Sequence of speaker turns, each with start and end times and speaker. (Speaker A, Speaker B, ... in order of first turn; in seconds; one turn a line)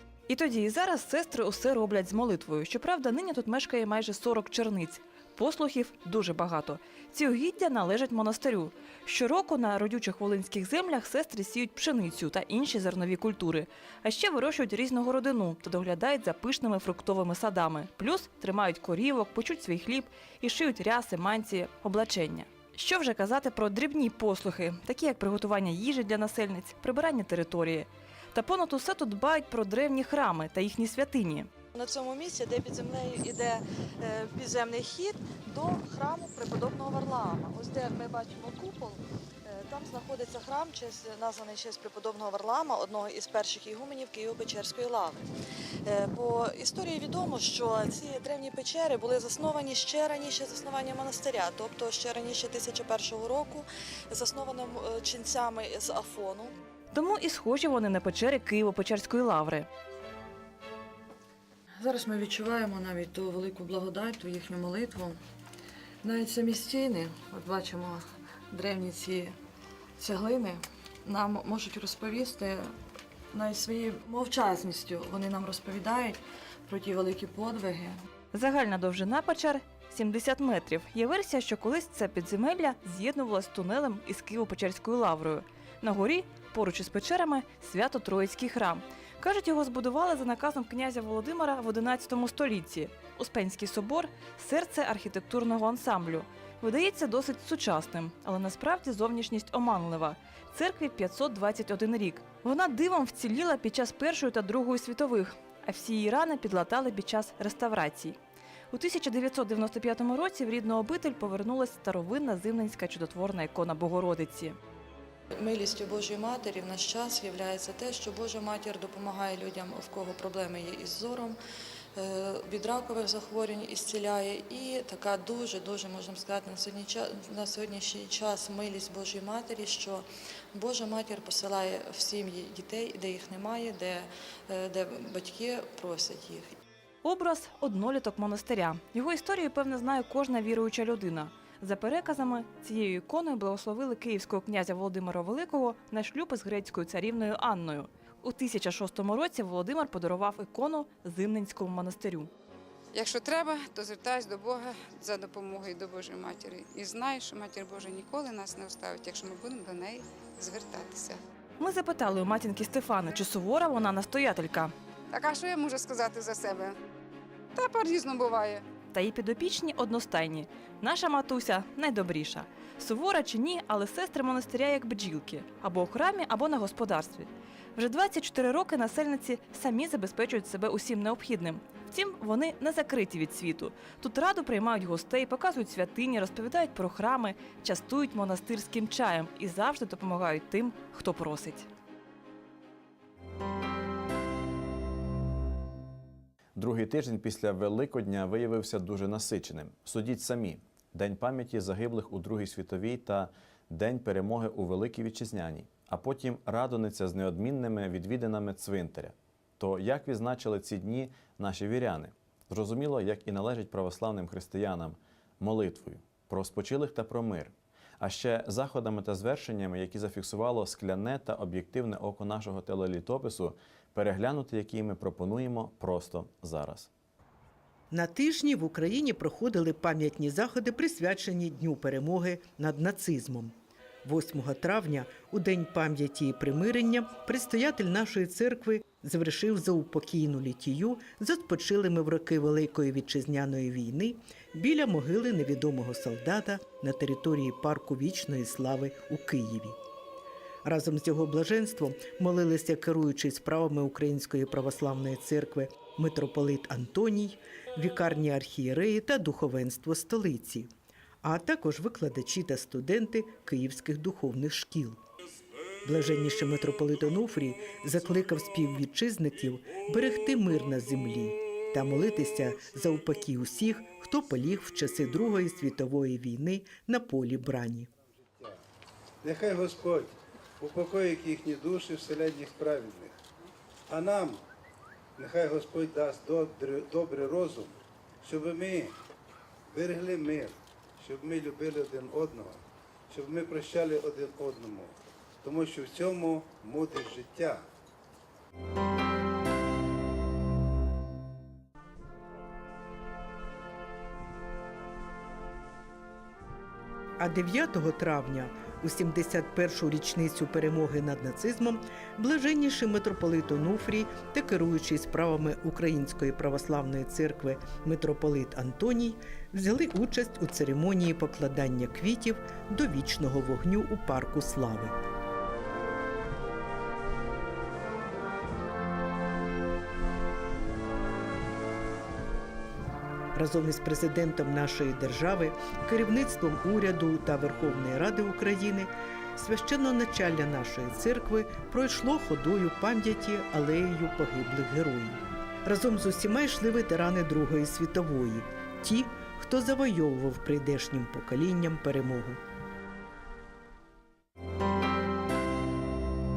Speaker A: 0.3-31.5
Speaker B: 31.7-45.3
Speaker B: 45.8-56.5
Speaker A: 56.9-59.7
Speaker B: 61.8-65.2
Speaker B: 66.0-69.3
Speaker B: 70.0-72.7
Speaker B: 73.3-78.0
Speaker A: 78.3-108.2
Speaker A: 108.7-114.6
Speaker B: 115.3-121.4
Speaker B: 122.0-136.5
Speaker A: 137.0-152.3
Speaker C: 152.9-161.2
Speaker A: 161.6-164.7
Speaker C: 165.1-166.8
Speaker C: 167.5-168.6
Speaker A: 168.9-191.7
Speaker D: 196.6-226.9
Speaker E: 227.9-249.8
Speaker E: 250.6-260.7
Speaker E: 261.2-265.0
Speaker E: 265.8-277.9
Speaker F: 278.3-278.6
Speaker F: 279.2-283.1
Speaker F: 283.9-284.4
Speaker F: 285.2-288.9
Speaker F: 289.7-297.6
Speaker E: 307.2-324.9
Speaker E: 333.3-352.4